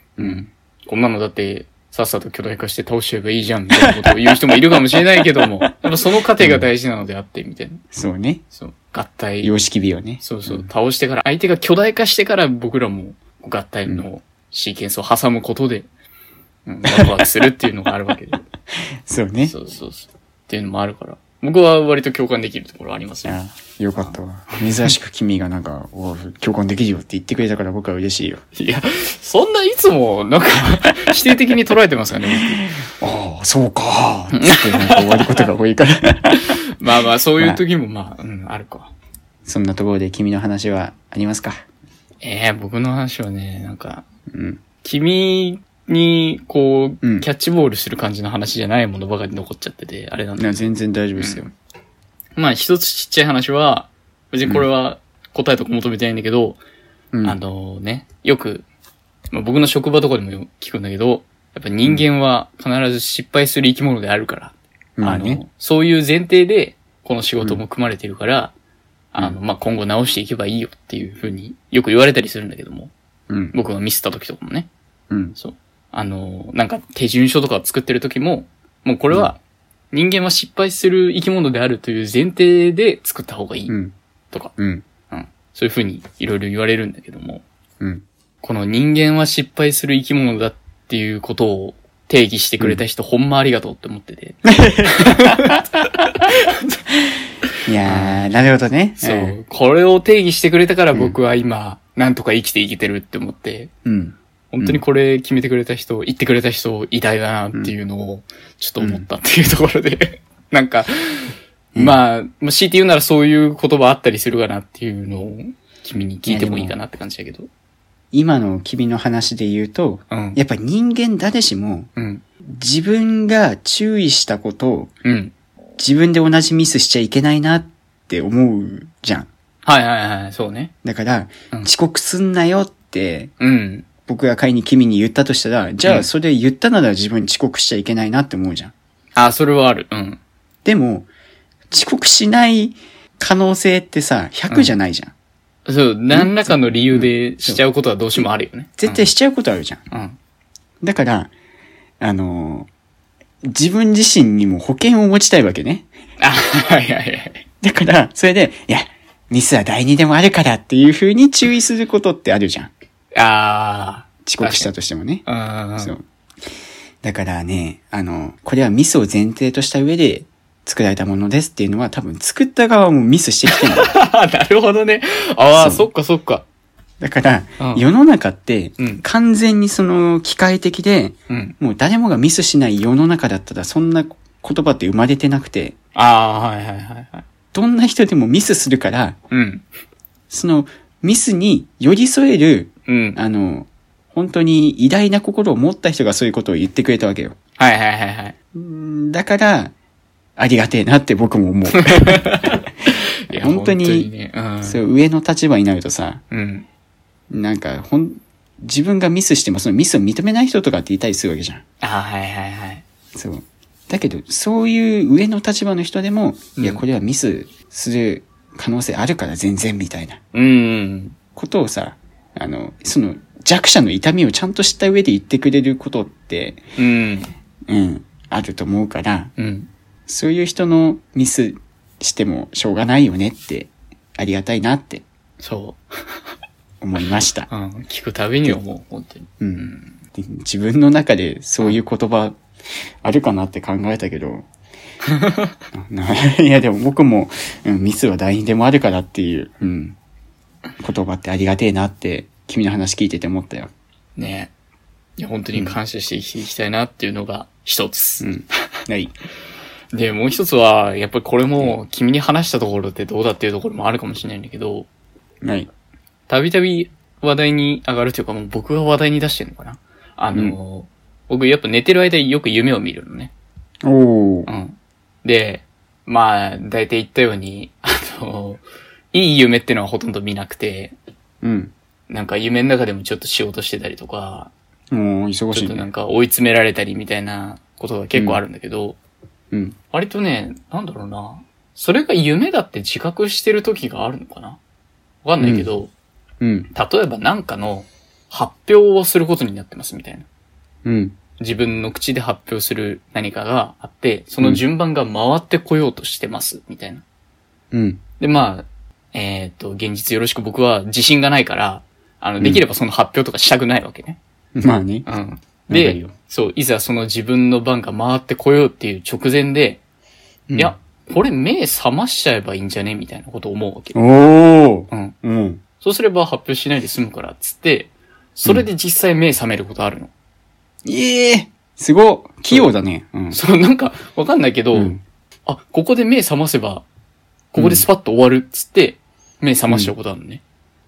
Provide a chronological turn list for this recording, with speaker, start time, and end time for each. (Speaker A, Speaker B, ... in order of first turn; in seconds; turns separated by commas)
Speaker A: 0.2-0.5, Speaker B: 0.2-7.8, Speaker A: 3.7-4.2, Speaker A: 6.4-6.7, Speaker A: 7.9-8.4, Speaker B: 8.6-9.5, Speaker A: 9.4-10.7, Speaker B: 10.2-15.9, Speaker B: 16.6-18.4, Speaker A: 19.1-19.5, Speaker B: 19.4-23.3, Speaker A: 23.2-28.4, Speaker B: 24.6-24.9, Speaker B: 28.6-32.6, Speaker A: 32.4-36.6, Speaker B: 34.4-35.4, Speaker B: 36.8-38.9, Speaker A: 39.5-41.6, Speaker B: 42.2-44.0, Speaker A: 44.3-44.6, Speaker B: 44.8-50.6, Speaker A: 47.0-47.3, Speaker A: 50.4-51.5, Speaker B: 51.1-51.4, Speaker B: 52.4-56.6, Speaker B: 57.2-58.6, Speaker B: 59.3-68.5, Speaker A: 65.0-65.4, Speaker B: 69.1-72.9, Speaker A: 73.3-73.5, Speaker B: 73.5-74.7, Speaker A: 75.1-75.3, Speaker B: 75.4-79.4, Speaker B: 79.9-83.7, Speaker A: 83.7-83.9, Speaker A: 84.6-84.8, Speaker B: 85.1-87.4, Speaker B: 88.4-95.6, Speaker A: 94.4-95.6, Speaker B: 96.5-96.8, Speaker A: 97.7-99.4, Speaker B: 97.8-98.4, Speaker B: 99.0-103.7, Speaker A: 103.8-104.8, Speaker B: 104.5-117.5, Speaker A: 108.8-109.1, Speaker A: 116.2-116.8, Speaker A: 118.1-121.9, Speaker B: 120.1-120.4, Speaker B: 122.0-122.2, Speaker A: 122.4-124.9, Speaker B: 125.0-125.3, Speaker A: 125.8-129.3, Speaker B: 129.6-130.7, Speaker A: 130.8-133.3, Speaker B: 133.4-133.9, Speaker A: 134.0-138.7, Speaker B: 139.1-140.2, Speaker A: 140.6-141.1, Speaker A: 141.7-145.1, Speaker B: 144.5-144.8, Speaker B: 145.7-149.0, Speaker A: 146.1-147.6, Speaker A: 148.8-149.8, Speaker B: 149.9-150.2, Speaker A: 150.8-151.3, Speaker A: 152.0-152.7, Speaker A: 153.4-155.9, Speaker B: 156.2-157.4, Speaker A: 157.6-162.7, Speaker B: 163.1-164.7, Speaker A: 164.2-165.2, Speaker B: 165.2-165.9, Speaker A: 167.0-173.9, Speaker B: 173.5-176.4, Speaker A: 175.6-175.9, Speaker A: 177.0-185.8, Speaker B: 177.6-177.8, Speaker B: 178.8-179.0, Speaker B: 181.3-181.5, Speaker B: 185.9-187.2, Speaker A: 187.5-189.2, Speaker B: 189.3-189.6, Speaker A: 190.3-197.3, Speaker B: 192.9-193.2, Speaker B: 197.6-198.3, Speaker A: 198.5-199.7, Speaker A: 200.4-202.3, Speaker B: 201.8-204.8, Speaker A: 203.3-204.1, Speaker A: 204.6-206.2, Speaker B: 206.3-206.6, Speaker A: 207.3-211.6, Speaker B: 211.8-212.8, Speaker A: 213.2-220.2, Speaker B: 216.6-216.8, Speaker B: 220.3-221.1, Speaker A: 221.3-226.6, Speaker B: 226.8-227.3, Speaker A: 227.7-229.3, Speaker B: 229.4-229.7, Speaker A: 230.1-235.0, Speaker B: 235.4-236.2, Speaker A: 236.8-237.5, Speaker B: 237.5-239.9, Speaker A: 239.4-242.4, Speaker A: 243.0-244.4, Speaker B: 245.1-245.5, Speaker A: 245.7-249.9, Speaker A: 250.8-253.7, Speaker B: 254.2-254.5, Speaker B: 255.2-258.3, Speaker A: 258.2-259.1, Speaker B: 259.9-264.9, Speaker B: 266.3-273.3, Speaker A: 273.8-274.5, Speaker B: 274.4-280.9, Speaker A: 281.4-281.7, Speaker B: 282.1-284.5, Speaker A: 284.9-285.9, Speaker B: 285.5-289.0, Speaker A: 288.1-288.4, Speaker B: 289.9-294.6, Speaker B: 295.2-295.9, Speaker A: 295.4-295.7, Speaker A: 296.4-296.7, Speaker B: 296.7-300.3, Speaker A: 300.8-301.1, Speaker B: 301.4-307.0, Speaker A: 307.7-308.0, Speaker B: 308.2-314.2, Speaker A: 314.6-315.1, Speaker B: 315.1-319.8, Speaker A: 315.7-316.1, Speaker B: 320.6-324.0, Speaker A: 323.9-325.6, Speaker B: 324.9-325.1, Speaker B: 325.8-330.1, Speaker A: 330.8-333.4, Speaker B: 333.3-334.9, Speaker A: 334.7-335.0, Speaker B: 335.4-336.8, Speaker B: 337.5-340.4, Speaker A: 337.6-337.8